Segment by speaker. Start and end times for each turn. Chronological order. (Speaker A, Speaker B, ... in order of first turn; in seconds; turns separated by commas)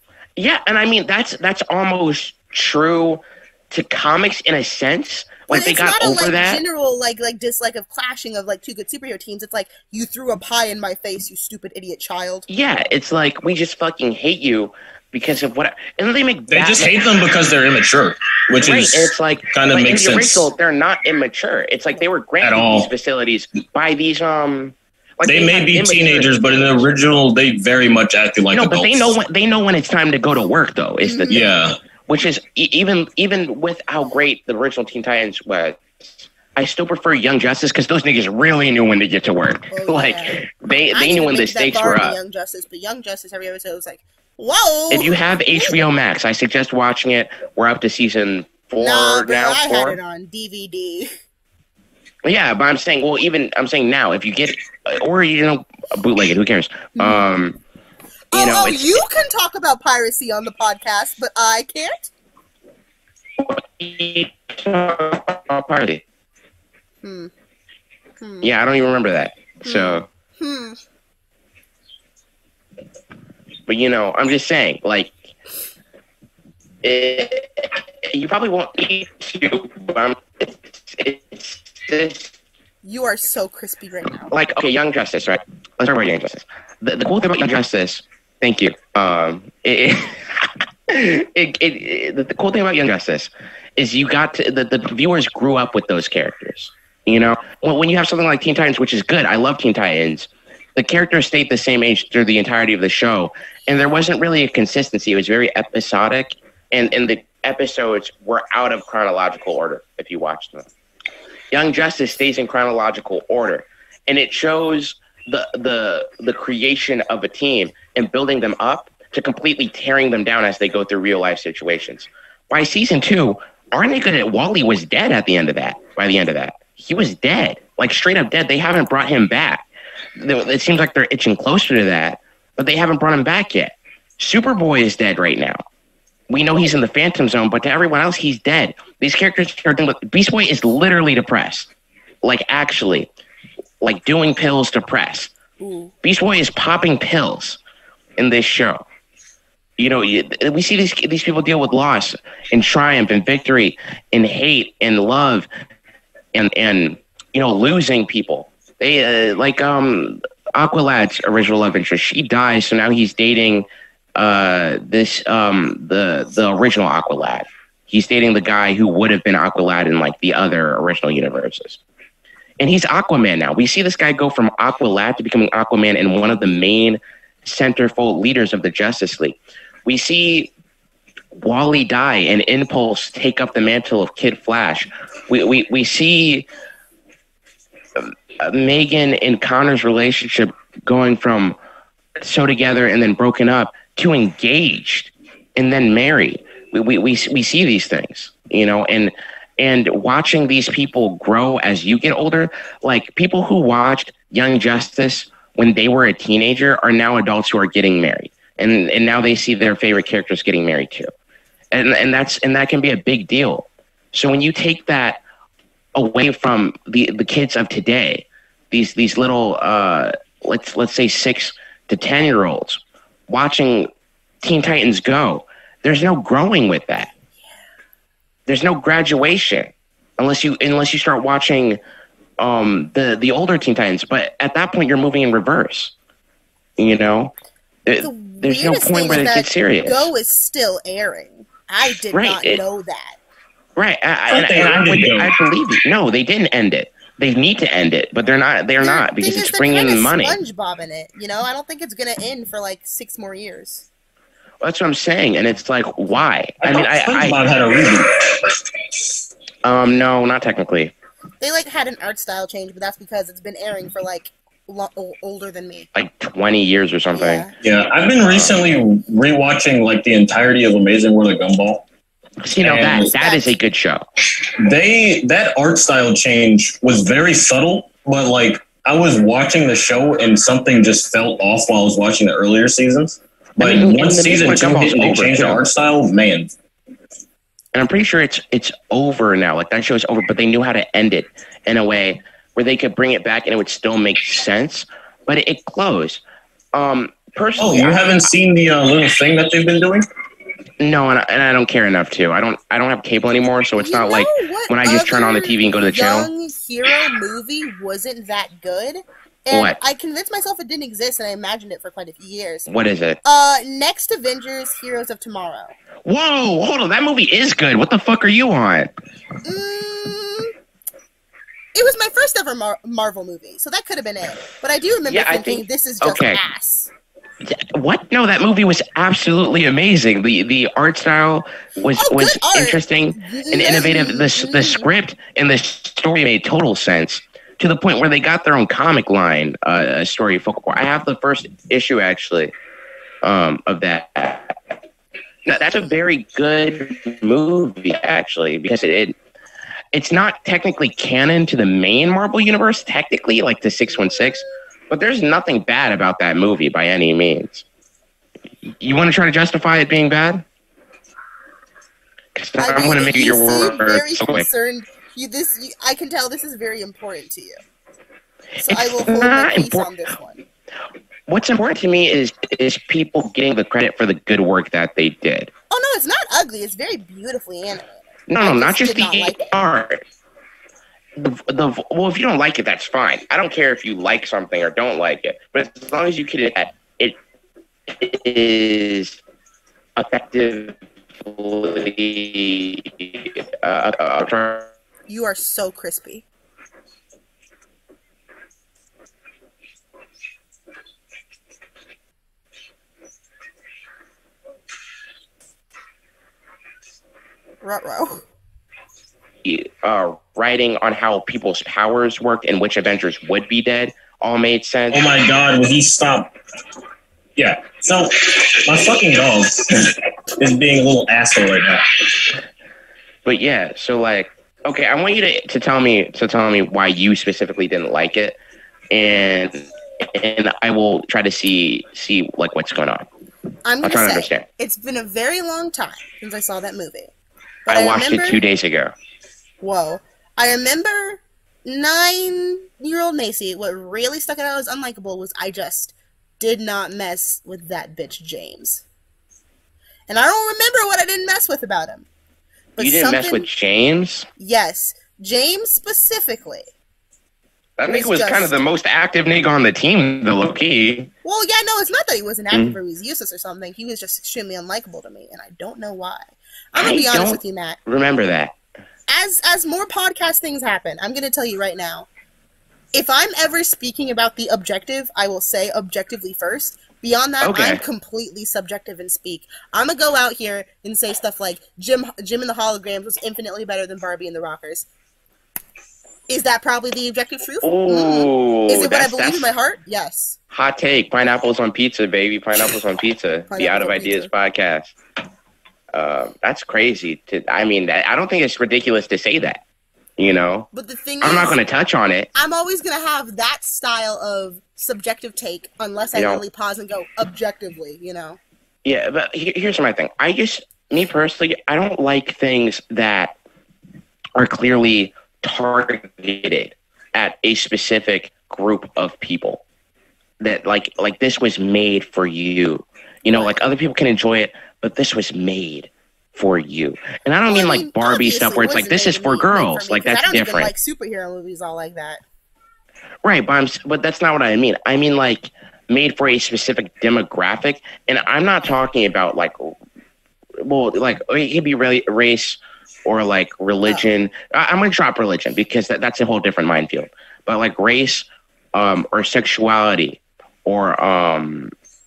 Speaker A: 0.4-6.6, Speaker B: 5.5-12.5, Speaker A: 12.5-17.0, Speaker C: 16.5-20.5, Speaker A: 18.6-27.0, Speaker C: 22.4-22.9, Speaker C: 25.3-29.2, Speaker A: 28.5-31.5, Speaker B: 31.0-31.5, Speaker C: 31.3-31.8, Speaker A: 32.1-42.2, Speaker B: 39.7-40.4, Speaker B: 40.9-45.8, Speaker A: 44.9-50.0, Speaker B: 48.8-51.1, Speaker A: 52.2-57.6, Speaker B: 57.0-57.3, Speaker B: 58.3-62.1, Speaker A: 58.3-59.0, Speaker A: 63.4-66.0, Speaker B: 67.0-67.3, Speaker B: 68.2-68.5, Speaker A: 68.4-70.1, Speaker B: 69.7-70.8, Speaker A: 73.7-75.3, Speaker A: 76.8-82.3, Speaker B: 82.8-84.3, Speaker A: 84.3-110.7, Speaker A: 111.5-129.7, Speaker A: 130.2-135.6, Speaker A: 136.3-141.7, Speaker A: 142.2-143.1, Speaker A: 143.8-145.3, Speaker B: 145.6-145.9, Speaker A: 146.0-147.6, Speaker A: 148.2-148.9, Speaker A: 149.8-155.5, Speaker A: 156.3-171.8, Speaker A: 172.6-180.5, Speaker A: 181.3-186.5, Speaker A: 188.0-191.6, Speaker A: 192.2-211.1, Speaker A: 211.7-215.2, Speaker A: 215.9-223.9, Speaker A: 224.4-227.1, Speaker A: 228.5-231.8, Speaker A: 232.4-235.9, Speaker A: 236.8-237.3, Speaker A: 237.9-240.1, Speaker B: 238.0-243.2, Speaker A: 242.1-242.6, Speaker A: 243.8-250.4, Speaker C: 244.3-245.4, Speaker B: 248.8-253.9, Speaker A: 254.6-257.4, Speaker C: 256.6-258.6, Speaker A: 259.6-260.9, Speaker B: 261.4-265.9, Speaker A: 265.9-267.5, Speaker B: 267.1-267.5, Speaker C: 267.6-271.9, Speaker A: 268.2-268.7, Speaker A: 272.4-274.1, Speaker C: 272.6-273.1, Speaker B: 273.2-273.5, Speaker C: 274.6-286.5, Speaker A: 283.6-285.6, Speaker A: 287.7-296.2, Speaker A: 296.7-298.3, Speaker C: 297.6-300.1, Speaker A: 300.8-306.3, Speaker B: 303.8-312.7, Speaker A: 309.5-309.8, Speaker A: 312.7-313.2, Speaker B: 313.2-315.8, Speaker A: 316.1-318.9, Speaker B: 319.4-320.5, Speaker B: 321.7-326.9, Speaker A: 325.1-326.4, Speaker A: 327.4-342.5, Speaker B: 332.0-334.9, Speaker A: 343.2-344.6, Speaker A: 345.5-349.1, Speaker A: 349.9-357.6, Speaker B: 354.0-354.4, Speaker A: 358.8-360.4, Speaker A: 362.4-364.5, Speaker B: 362.6-367.6, Speaker A: 368.6-369.9, Speaker B: 368.6-370.4, Speaker A: 371.3-375.5, Speaker B: 375.7-379.5, Speaker A: 378.3-380.0, Speaker A: 381.2-387.2, Speaker A: 387.9-389.2, Speaker A: 390.0-394.7, Speaker B: 395.1-396.2, Speaker B: 407.6-408.2, Speaker A: 409.4-415.1, Speaker C: 414.9-416.3, Speaker C: 417.4-422.3, Speaker A: 423.2-428.4, Speaker A: 428.9-433.1, Speaker B: 433.6-437.1, Speaker A: 433.8-434.5, Speaker B: 437.7-438.4, Speaker A: 437.7-439.0, Speaker B: 439.6-448.8, Speaker B: 450.1-452.1, Speaker B: 452.8-453.5, Speaker A: 452.8-454.3, Speaker B: 454.4-456.7, Speaker A: 457.8-461.1, Speaker B: 457.9-458.6, Speaker B: 461.2-467.8, Speaker A: 462.5-462.8, Speaker A: 466.8-468.5, Speaker B: 469.1-472.1, Speaker B: 472.9-484.9, Speaker A: 477.4-477.8, Speaker B: 486.3-490.4, Speaker A: 487.6-489.5, Speaker A: 490.5-494.9, Speaker B: 493.5-494.3, Speaker A: 495.9-499.6, Speaker A: 500.2-500.7, Speaker B: 500.7-501.6, Speaker A: 501.2-502.3, Speaker B: 502.4-508.4, Speaker A: 506.2-506.4, Speaker A: 508.9-513.4, Speaker A: 514.4-519.6, Speaker A: 520.4-530.7, Speaker B: 523.3-523.6, Speaker B: 527.5-532.2, Speaker A: 533.2-539.8, Speaker A: 540.6-551.7